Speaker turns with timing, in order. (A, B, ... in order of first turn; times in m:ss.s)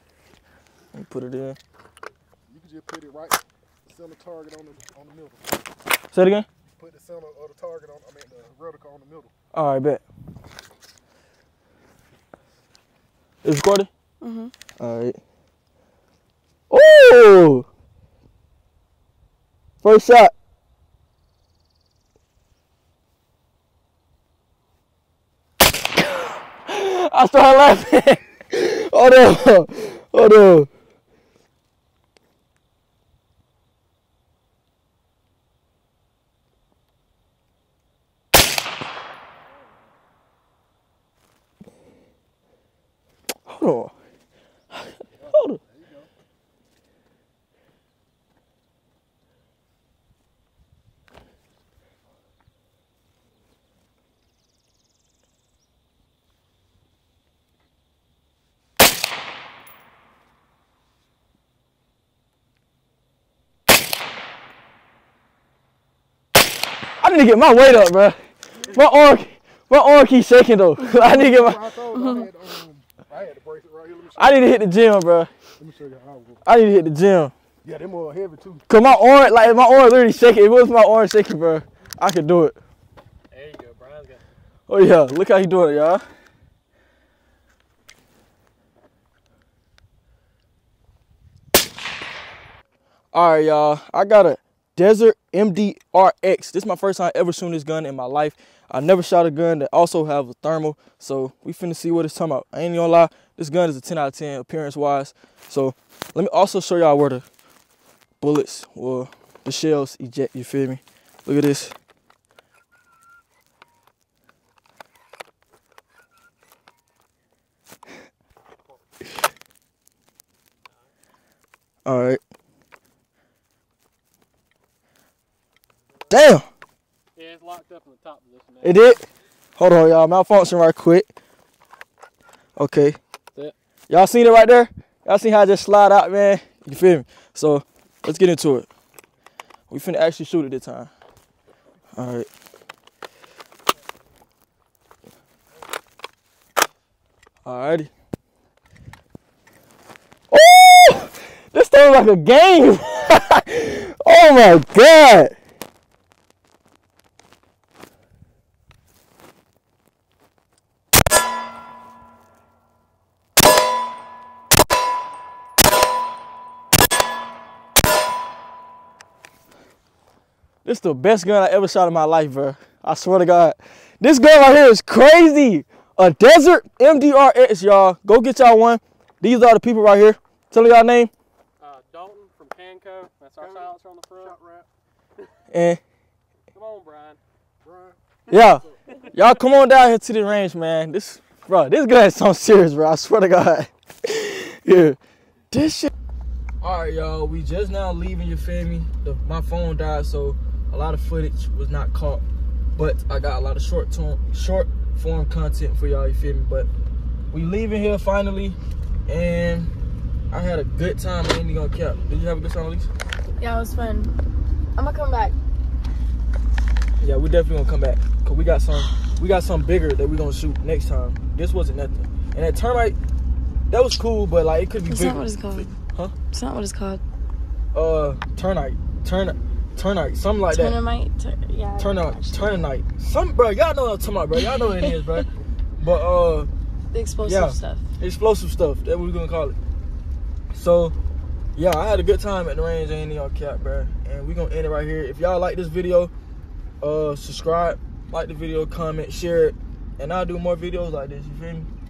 0:00.9-0:01.6 A
0:02.5-0:05.7 B
0:06.1-0:06.5 A
0:06.7-0:09.3 B
0:09.5-0:10.0 A
0:13.4-0:13.9 A
0:14.2-0:14.5 C
0:14.8-0:15.2 A
0:16.7-0:17.6 A
0:19.8-0:20.3 A
0:26.7-0:30.7 A
0:43.4-0:43.9 A
0:44.7-0:45.6 A
0:45.1-0:46.1 B
1:07.0-1:08.2 A
1:08.7-1:11.7 A
1:10.9-1:14.5 B
1:11.9-1:12.3 C
1:14.2-1:15.3 A
1:15.6-1:16.4 B
1:16.4-1:17.3 A
1:17.6-1:18.6 B
1:18.7-1:22.6 A
1:23.3-1:24.3 D
1:24.7-1:26.0 A
1:33.1-1:47.2 A
1:48.2-1:51.7 A
2:01.8-2:02.2 A
2:06.1-2:06.5 A
2:07.1-2:09.0 D
2:08.6-2:09.0 A
2:09.6-2:11.1 A
2:12.6-2:13.0 A
2:13.9-2:18.7 A
2:19.7-2:20.9 A
2:21.9-2:22.3 A
2:27.4-2:27.9 A
2:30.3-2:35.4 A
2:50.6-3:01.1 A
3:01.6-3:04.4 D
3:03.4-3:04.7 B
3:05.5-3:05.8 A
3:06.5-3:07.2 D
3:07.6-3:09.0 B
3:08.3-3:15.0 A
3:08.9-3:09.1 D
3:15.5-3:15.9 A
3:16.6-3:22.2 A
3:22.8-3:26.7 A
3:27.3-3:29.7 A
3:30.3-3:32.9 A
3:33.4-3:34.1 C
3:34.8-3:35.3 C
3:37.0-3:43.0 A
3:43.7-3:46.1 A
3:44.9-3:45.7 C
3:46.3-3:47.0 C
3:47.7-3:50.8 A
3:50.5-3:52.6 C
3:51.8-3:56.5 A
3:54.5-3:55.2 C
3:56.9-3:57.8 C
3:57.2-3:59.6 A
4:00.5-4:00.9 A
4:01.6-4:06.1 A
4:06.8-4:11.7 A